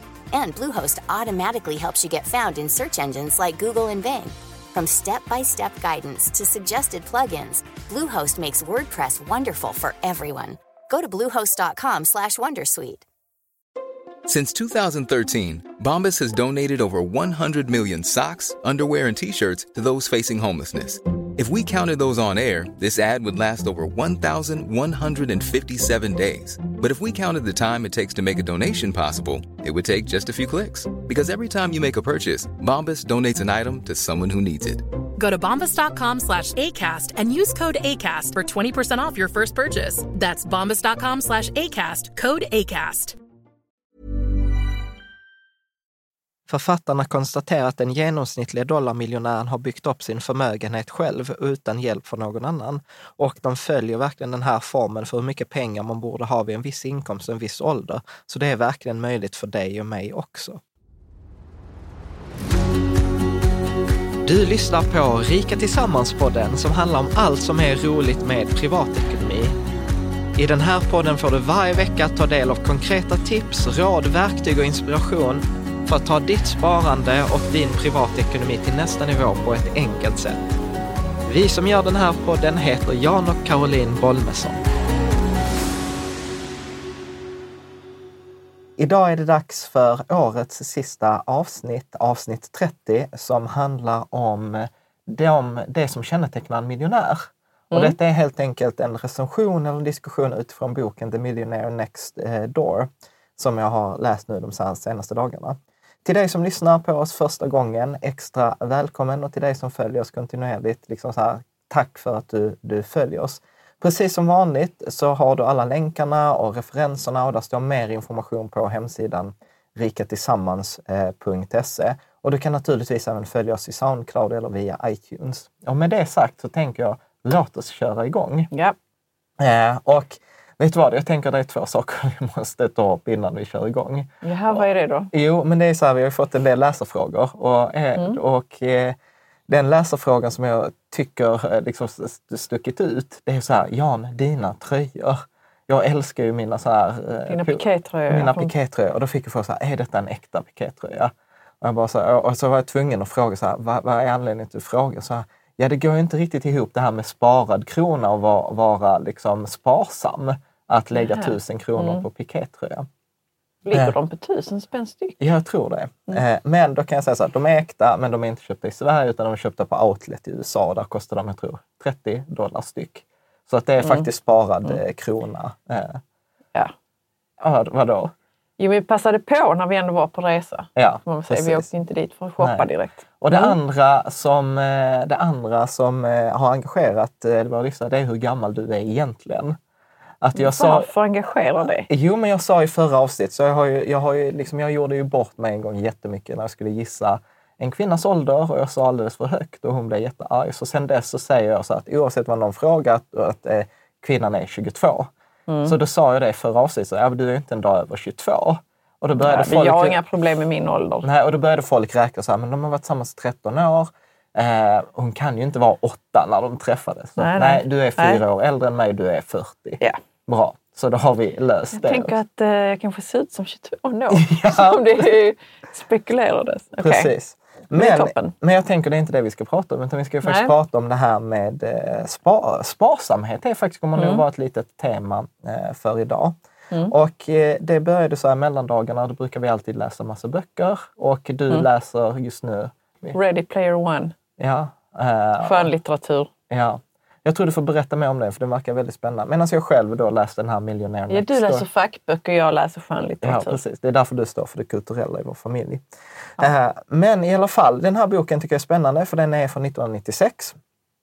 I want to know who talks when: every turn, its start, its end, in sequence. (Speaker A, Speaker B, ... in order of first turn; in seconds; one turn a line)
Speaker A: 0.3-13.1
Speaker B: 14.3-34.9
Speaker C: 35.2-43.2
Speaker D: 46.5-60.6
Speaker D: 64.2-69.6
Speaker D: 70.4-80.5
Speaker D: 81.3-84.6
Speaker D: 88.8-128.5
Speaker E: 97.7-98.0
Speaker D: 129.4-139.0
Speaker E: 134.2-135.1
Speaker D: 139.5-162.9
Speaker E: 147.3-148.5
Speaker E: 160.9-162.1
Speaker E: 163.6-165.2
Speaker D: 165.2-176.0
Speaker E: 173.8-174.1
Speaker D: 177.4-178.1
Speaker E: 178.6-183.6
Speaker D: 180.8-181.7
Speaker D: 182.4-182.7
Speaker D: 183.2-189.6
Speaker D: 190.2-190.9
Speaker E: 190.3-191.9
Speaker D: 191.9-205.1
Speaker E: 205.5-205.8
Speaker D: 205.7-210.0
Speaker E: 209.2-211.1
Speaker D: 211.0-222.2
Speaker E: 217.2-218.2
Speaker E: 221.7-227.1
Speaker D: 224.1-225.0
Speaker D: 226.8-236.3
Speaker E: 227.7-228.3
Speaker E: 230.2-230.5
Speaker E: 234.0-234.2
Speaker D: 236.9-243.2
Speaker E: 243.1-244.2
Speaker D: 244.4-245.7
Speaker E: 245.4-246.3
Speaker D: 246.5-251.7
Speaker E: 251.1-253.6
Speaker D: 253.2-255.8
Speaker D: 256.4-260.6